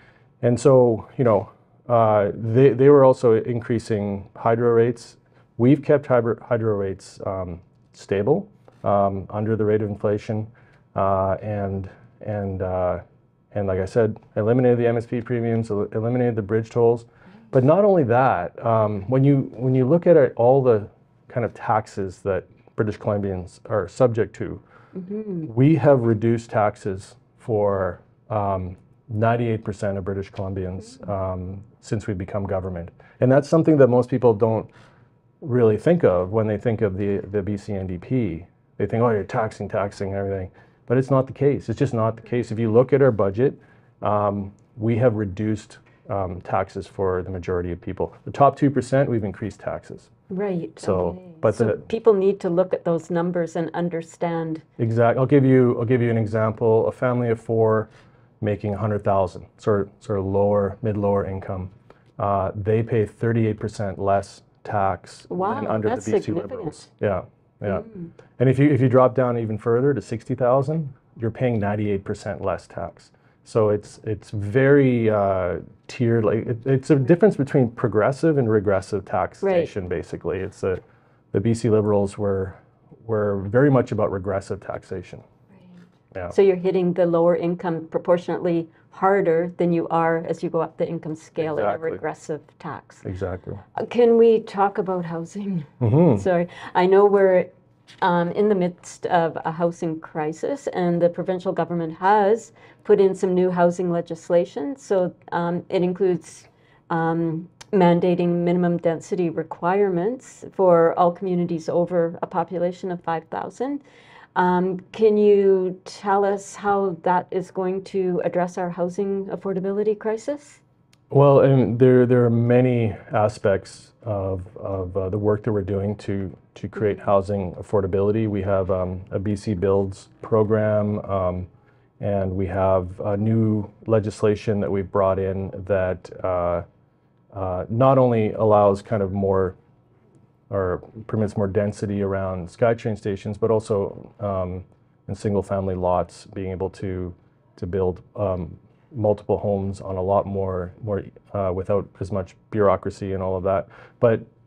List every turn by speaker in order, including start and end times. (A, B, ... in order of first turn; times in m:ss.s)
0:00.4-0:24.6 A
0:25.0-0:25.5 B
0:25.4-0:34.7 A
0:35.4-0:50.1 A
0:50.3-0:54.6 B
0:50.8-0:51.8 A
0:54.8-0:57.9 A
0:58.4-1:07.9 A
1:05.3-1:06.8 B
1:07.7-1:08.1 B
1:08.4-1:20.8 A
1:19.4-1:19.7 B
1:21.3-1:25.2 A
1:26.3-1:33.0 B
1:31.4-1:32.0 A
1:33.0-1:33.6 A
1:33.8-1:37.5 B
1:35.8-1:36.2 A
1:38.0-1:53.8 B
1:54.4-2:00.6 B
2:01.1-2:11.5 A
2:12.0-2:16.6 A
2:17.3-2:19.6 A
2:20.5-2:34.3 A